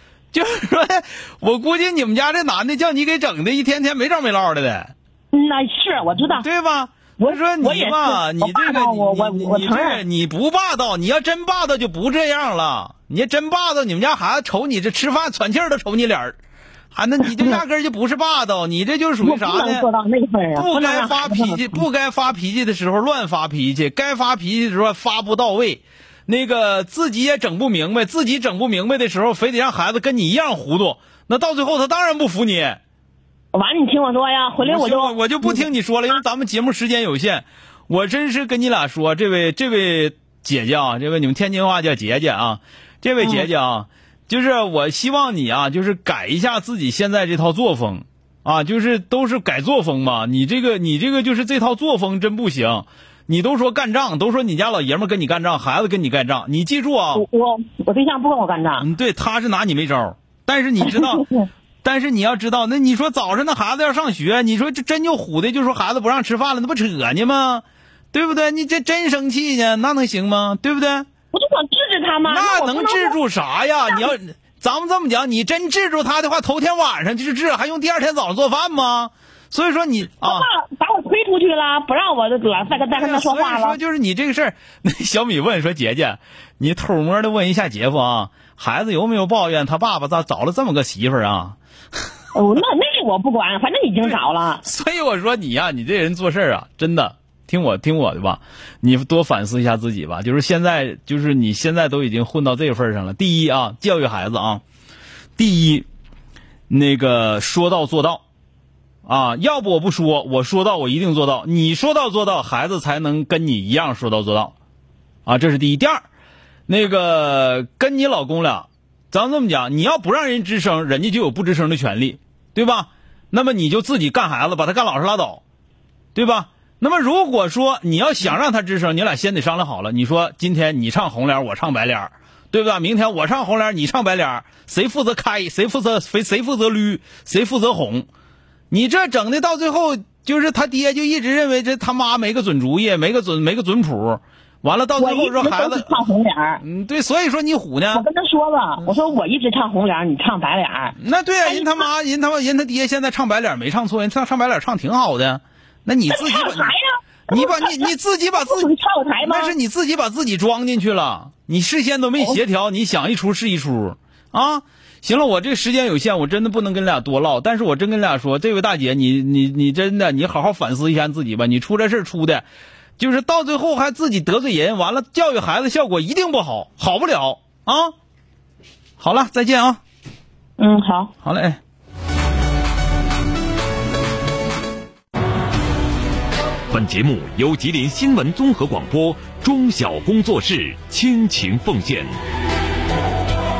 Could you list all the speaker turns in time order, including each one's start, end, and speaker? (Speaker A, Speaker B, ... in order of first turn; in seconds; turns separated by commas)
Speaker A: 0.3-4.9, Speaker B: 5.3-6.5, Speaker A: 6.3-16.4, Speaker B: 7.2-10.0, Speaker A: 16.9-19.9, Speaker B: 17.2-17.6, Speaker B: 19.2-21.8, Speaker A: 20.6-32.8, Speaker B: 33.5-35.6, Speaker A: 34.6-57.2, Speaker B: 43.2-43.5, Speaker B: 57.1-58.9, Speaker A: 58.8-61.2, Speaker B: 60.9-61.5, Speaker A: 61.8-71.1, Speaker B: 71.3-73.2, Speaker A: 72.2-80.5, Speaker B: 80.2-83.8, Speaker A: 82.9-91.6, Speaker B: 92.3-94.6, Speaker A: 94.0-104.6, Speaker A: 105.4-105.9, Speaker A: 106.7-108.2, Speaker A: 109.1-114.5, Speaker A: 115.2-116.0, Speaker A: 116.7-125.4, Speaker A: 126.1-138.1, Speaker A: 138.7-146.1, Speaker B: 145.0-146.6, Speaker A: 146.6-148.1, Speaker B: 147.9-151.9, Speaker A: 151.0-156.7, Speaker B: 156.1-159.6, Speaker A: 157.3-158.7, Speaker A: 159.2-172.4, Speaker A: 173.0-177.9, Speaker A: 179.0-179.8, Speaker B: 180.6-181.1, Speaker A: 181.2-181.6, Speaker C: 186.7-192.1